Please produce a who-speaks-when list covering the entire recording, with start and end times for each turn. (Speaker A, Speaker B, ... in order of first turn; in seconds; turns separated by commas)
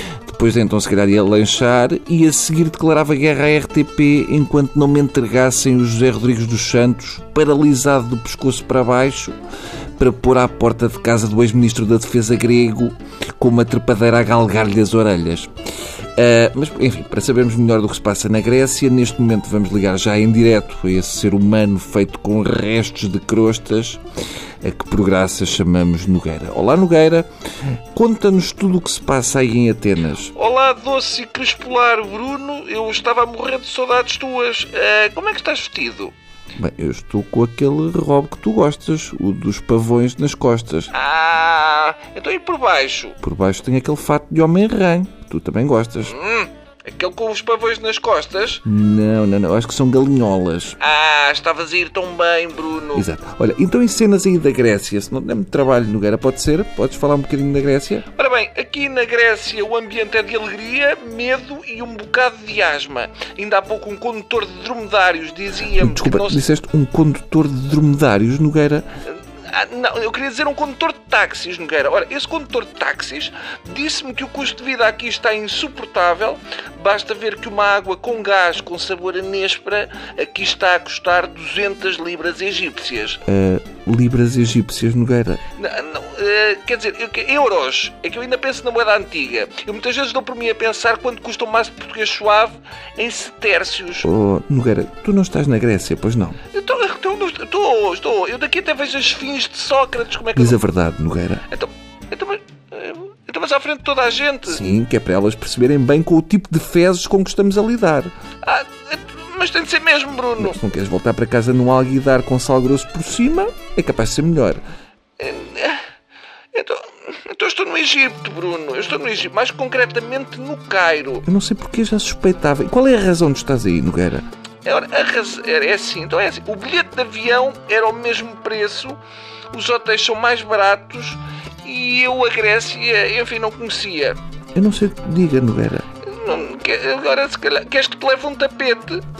Speaker A: 0.2-9.4, Speaker A: 10.0-15.5, Speaker A: 16.2-24.0, Speaker A: 24.6-27.3, Speaker A: 27.9-30.3, Speaker B: 30.3-36.1, Speaker A: 36.6-40.9, Speaker B: 40.9-43.2, Speaker A: 43.2-46.2, Speaker B: 46.1-48.6, Speaker A: 48.6-50.8, Speaker B: 50.8-53.1, Speaker A: 53.0-58.1, Speaker B: 58.1-66.4, Speaker A: 65.7-68.9, Speaker B: 69.4-83.2, Speaker A: 83.2-85.5, Speaker B: 85.6-94.1, Speaker A: 94.0-96.5, Speaker B: 96.5-100.6, Speaker A: 100.3-101.5, Speaker B: 101.5-104.6, Speaker A: 104.5-108.1, Speaker B: 108.4-110.6, Speaker A: 110.4-114.6, Speaker B: 115.2-115.8, Speaker B: 116.5-121.2, Speaker A: 121.2-124.3, Speaker B: 124.6-129.0, Speaker B: 129.5-134.2, Speaker A: 134.6-136.0, Speaker B: 136.0-139.1